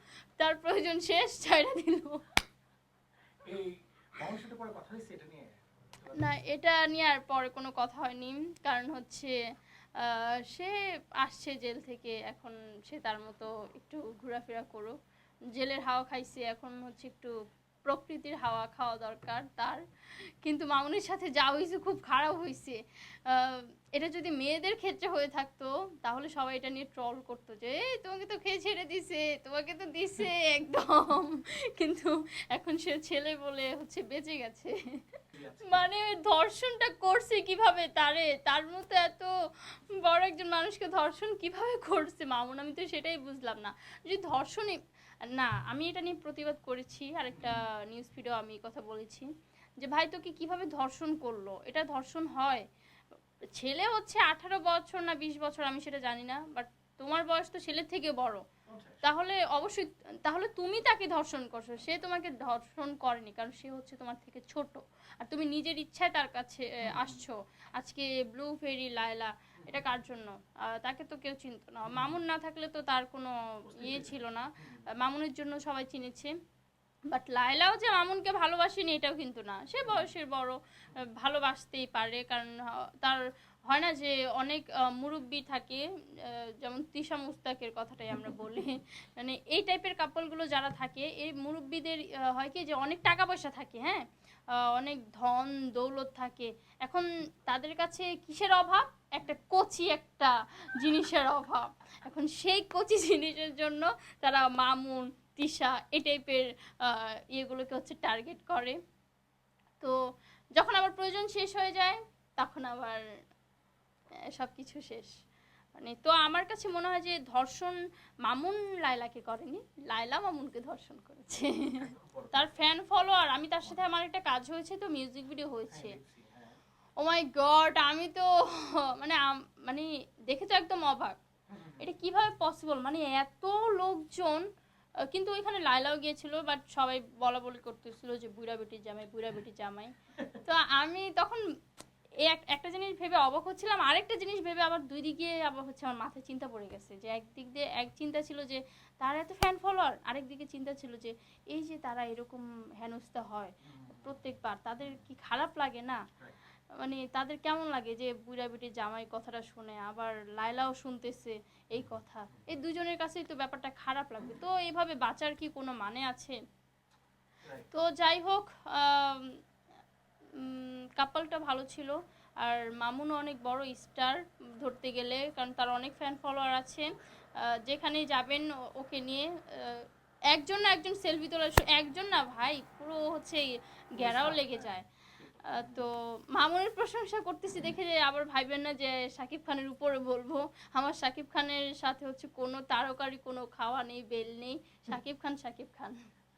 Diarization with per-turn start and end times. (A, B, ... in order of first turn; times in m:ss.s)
0:00.4-0:02.2 A
0:03.4-0:06.3 B
0:06.2-0:09.4 A
0:10.0-0:14.9 A
0:15.5-0:17.3 A
0:17.8-0:19.8 A
0:20.4-0:22.8 A
0:23.3-0:39.3 A
0:35.3-0:35.9 B
0:39.9-0:44.8 A
0:45.3-0:49.3 A
0:47.4-0:47.6 B
0:49.8-0:52.6 A
0:53.6-0:58.4 A
0:58.7-0:59.0 B
0:59.0-1:16.3 A
1:06.8-1:07.2 B
1:09.6-1:09.9 B
1:11.9-1:12.2 B
1:13.6-1:14.9 B
1:17.1-1:34.0 A
1:19.8-1:20.1 B
1:34.6-1:48.8 A
1:50.6-1:53.0 A
1:54.3-1:55.1 A
1:55.8-2:06.0 A
2:01.8-2:02.5 B
2:05.7-2:06.6 B
2:07.0-2:11.2 A
2:11.5-2:11.9 B
2:11.8-2:14.4 A
2:15.1-2:21.4 A
2:22.2-2:36.0 A
2:33.6-2:34.2 B
2:34.8-2:35.0 B
2:36.8-2:46.4 A
2:41.8-2:42.5 B
2:47.7-2:49.4 A
2:50.4-2:59.8 A
3:00.3-3:03.5 A
3:04.0-3:05.9 B
3:04.0-3:04.8 A
3:05.6-3:16.0 A